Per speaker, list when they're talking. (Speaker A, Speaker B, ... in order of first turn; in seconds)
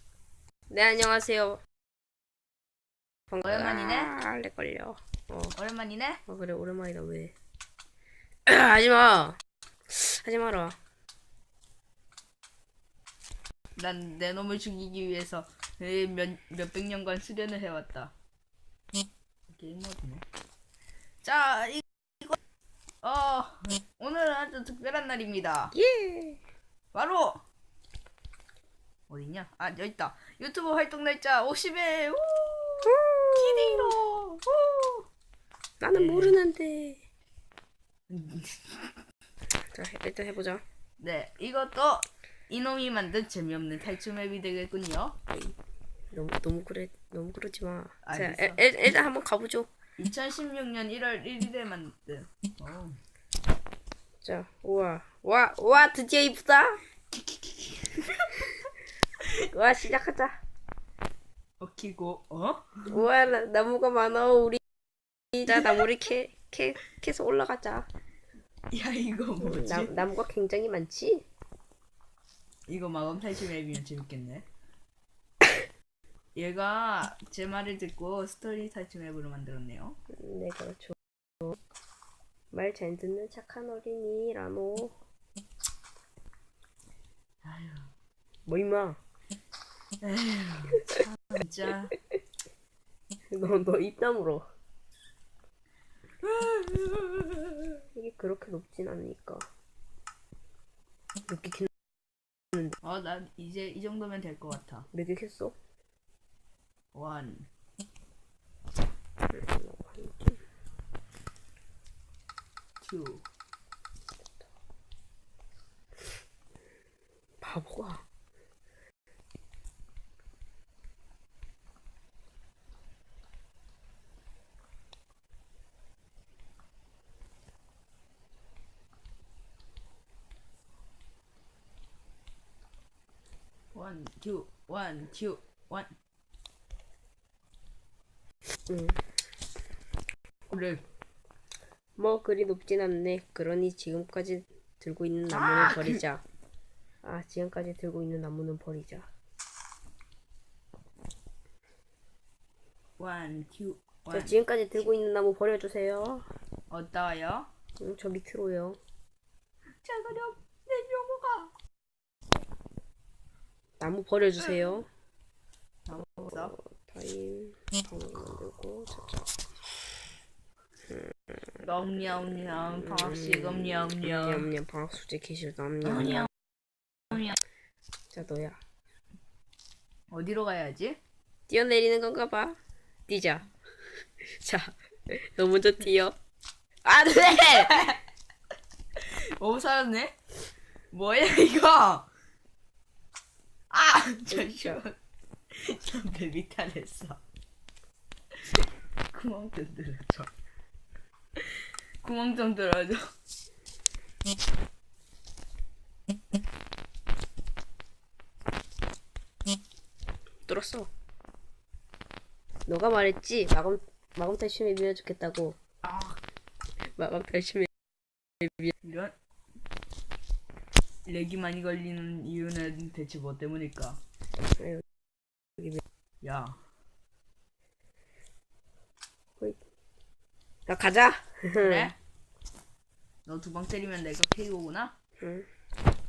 Speaker A: 0.7-1.6, 3.3-5.6, 6.3-7.3, 8.5-10.8, 25.7-26.4, 32.9-33.9, 35.8-37.0, 39.7-40.6, 46.1-49.7, 54.2-56.8, 59.5-60.4, 62.9-64.6, 65.3-67.9, 69.4-71.2, 80.1-81.0, 82.5-85.0, 88.5-89.0, 93.3-94.5, 98.0-99.5, 101.3-101.7, 104.9-105.6, 109.3-110.4, 117.4-118.0, 138.7-139.0, 142.0-146.2, 147.0-149.1, 154.1-156.3, 157.8-158.8, 163.8-164.9, 166.4-169.3, 172.8-176.3, 178.1-178.6, 181.5-183.5, 184.2-186.2, 186.9-187.8, 194.3-194.8, 210.5-210.9, 212.7-215.6, 217.0-217.7, 224.6-224.8, 230.7-231.9, 235.2-235.5
Speaker B: 3.4-4.1, 5.5-6.2, 13.8-18.1, 19.5-20.2, 21.2-22.4, 23.0-25.8, 26.9-27.4, 29.1-35.0, 35.9-36.4, 38.1-38.9, 41.0-45.2, 48.0-48.6, 50.0-53.0, 57.1-58.7, 61.6-63.0, 65.5-65.9, 68.7-70.0, 72.7-74.5, 76.3-80.0, 87.4-87.9, 90.0-92.0, 96.2-97.7, 102.8-104.9, 106.9-107.5, 112.8-113.2, 133.7-135.9, 140.5-140.8, 145.3-146.0, 153.0-154.3, 156.7-157.5, 159.8-161.5, 164.4-164.8, 165.9-166.6, 171.6-174.5, 175.9-176.3, 180.1-181.0, 187.1-188.0, 189.0-190.2, 190.9-192.1, 193.7-195.0, 195.5-197.2, 199.1-200.3, 202.0-203.0, 215.8-216.2, 218.8-219.1, 221.1-224.0, 226.2-226.6, 231.6-232.0, 233.3-234.9